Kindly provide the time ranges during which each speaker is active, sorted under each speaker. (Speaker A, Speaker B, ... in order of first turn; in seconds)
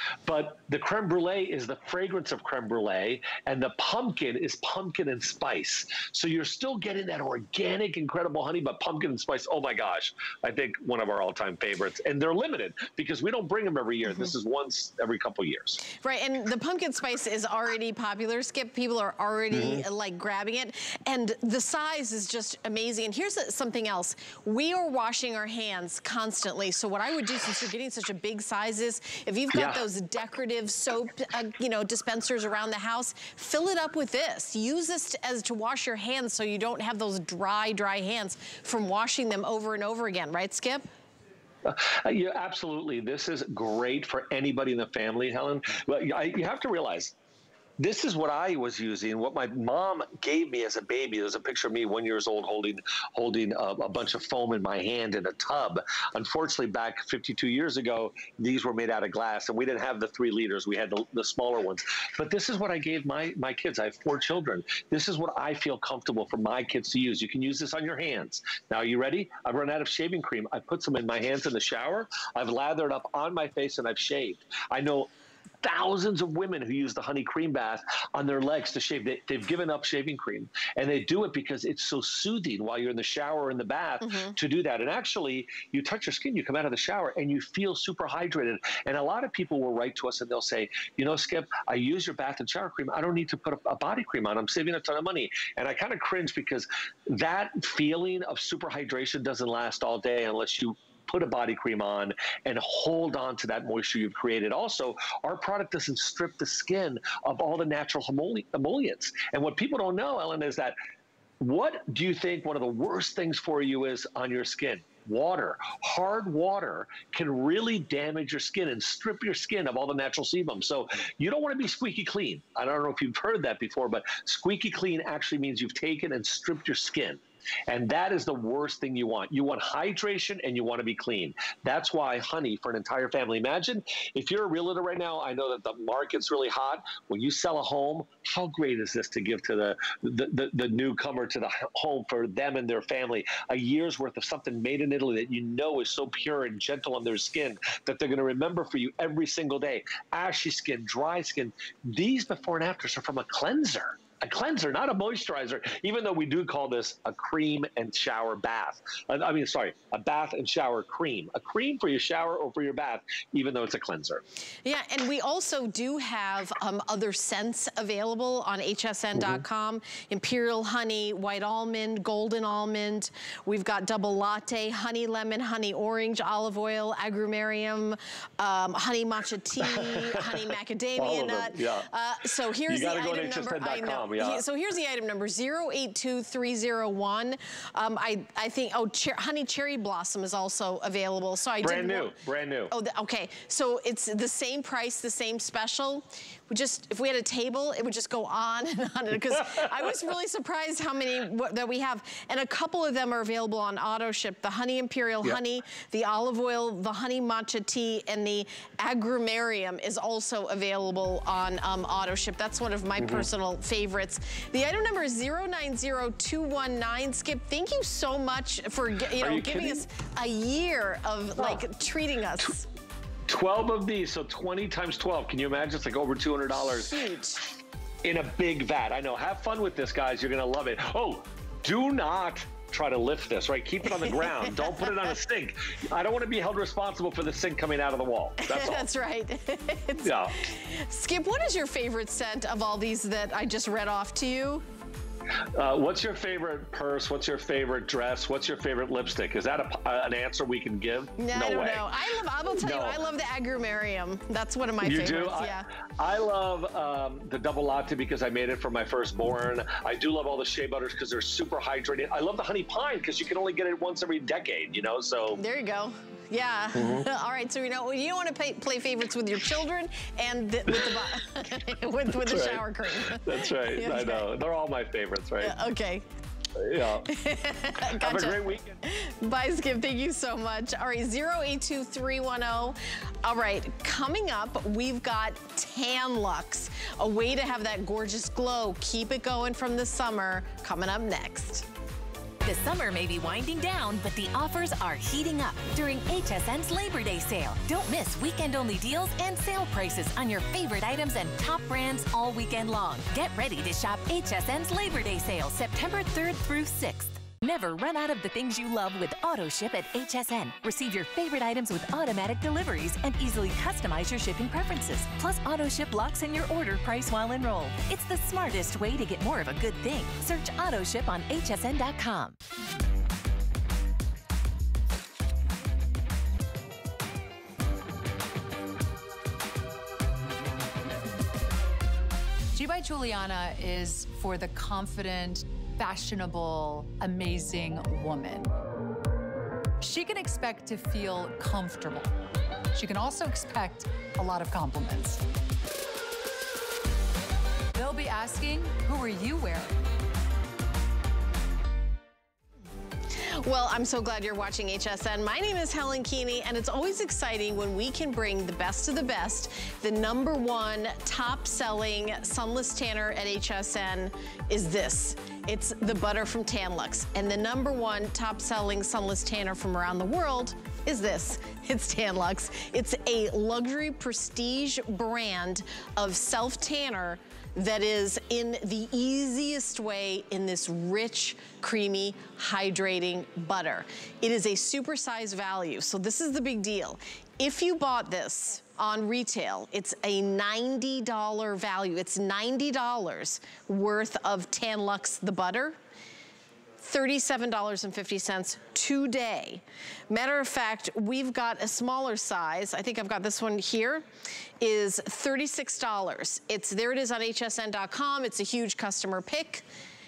Speaker A: 0.3-15.8, 19.5-19.9, 29.5-29.9, 41.6-47.1, 47.8-75.1, 75.6-110.8, 111.4-164.2, 169.2-169.4, 179.6-181.9, 182.7-184.4, 191.6-192.7, 213.0-213.3, 219.2-219.9, 223.3-227.1, 228.0-238.9, 240.0-240.4, 245.6-251.9, 252.5-253.0, 254.8-265.4, 266.8-267.1, 270.7-271.1, 272.1-275.6, 276.6-277.1, 277.8-278.8
Speaker B: 16.0-40.9, 84.0-84.3, 164.7-192.2, 192.7-222.7, 226.6-227.4, 234.0-234.9, 238.4-244.6, 251.2-255.7, 265.4-274.2, 275.4-276.1, 277.1-291.6, 353.2-395.8, 396.8-404.1, 404.6-409.6
Speaker C: 292.4-322.4
Speaker D: 332.5-338.5, 339.8-342.1, 342.7-345.2, 347.7-349.8